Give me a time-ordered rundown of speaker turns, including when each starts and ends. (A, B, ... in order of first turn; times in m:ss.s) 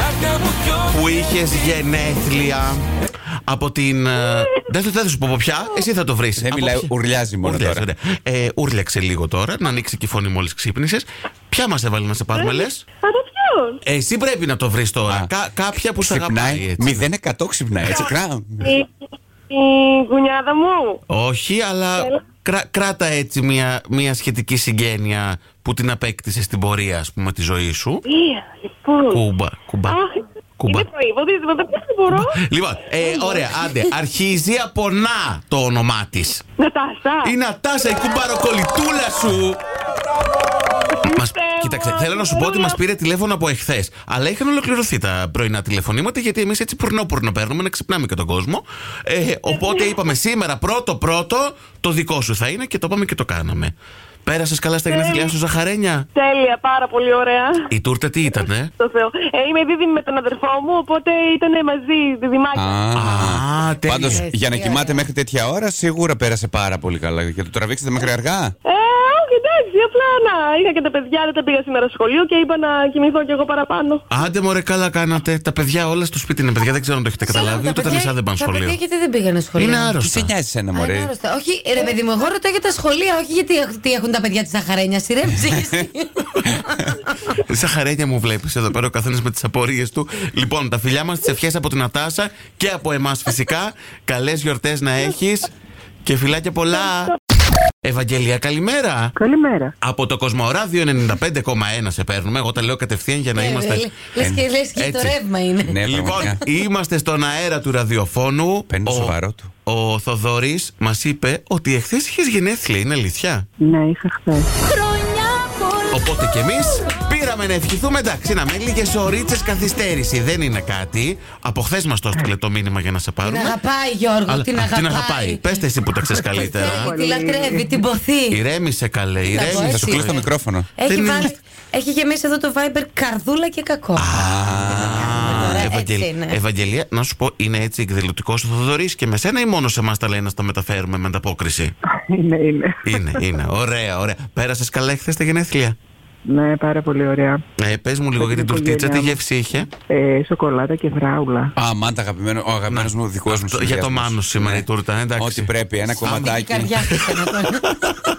0:00.7-0:02.8 A
0:03.5-0:06.9 A
0:06.4-0:07.9 B
0:07.4-0:12.8 A
0:12.3-0:13.8 C
0:13.8-0:17.1 A
0:16.0-0:18.7 B
0:18.6-0:18.9 C
0:19.5-0:21.0 C
0:21.1-0:28.0 A
0:22.0-0:22.2 C
0:28.1-0:29.2 C
0:29.1-0:30.0 A
0:29.9-0:32.4 C
0:30.6-0:30.9 A
0:32.1-0:36.4 A
0:33.0-0:33.6 C
0:36.6-0:37.3 C
0:37.2-0:39.6 A
0:41.0-0:42.8 C
0:41.1-0:53.7 A
0:49.5-0:50.0 C
0:54.3-0:56.1 A
0:54.9-0:55.3 C
0:56.2-0:57.7 C
0:57.7-0:58.7 A
0:58.3-1:02.8 C
1:02.6-1:08.6 B
1:03.0-1:04.2 A
1:04.0-1:05.1 D
1:08.6-1:14.0 C
1:14.1-1:18.8 A
1:17.2-1:20.0 D
1:19.6-1:20.3 A
1:20.0-1:21.1 B
1:20.7-1:26.9 D
1:27.4-1:35.5 A
1:36.0-1:37.2 A
1:37.8-1:39.1 A
1:39.2-1:39.7 E
1:39.8-1:43.9 A
1:43.3-1:46.4 D
1:44.8-1:45.2 A
1:45.6-1:46.4 B
1:45.8-1:53.4 A
1:48.7-1:49.5 B
1:53.6-1:54.5 E
1:55.9-2:03.6 A
2:03.2-2:05.6 D
2:04.3-2:07.0 A
2:06.2-2:07.8 E
2:06.4-2:08.4 D
2:08.3-2:10.2 A
2:09.2-2:10.1 D
2:09.4-2:10.7 B
2:10.8-2:14.2 D
2:10.9-2:11.3 A
2:14.0-2:21.7 A
2:14.1-2:15.7 B
2:14.7-2:16.4 D
2:21.9-2:23.2 E
2:22.9-2:25.8 A
2:26.3-2:27.4 E
2:27.6-2:29.7 A
2:28.2-2:29.2 E
2:29.9-2:31.5 E
2:31.6-2:36.8 B
2:32.7-2:36.3 A
2:36.0-2:37.8 D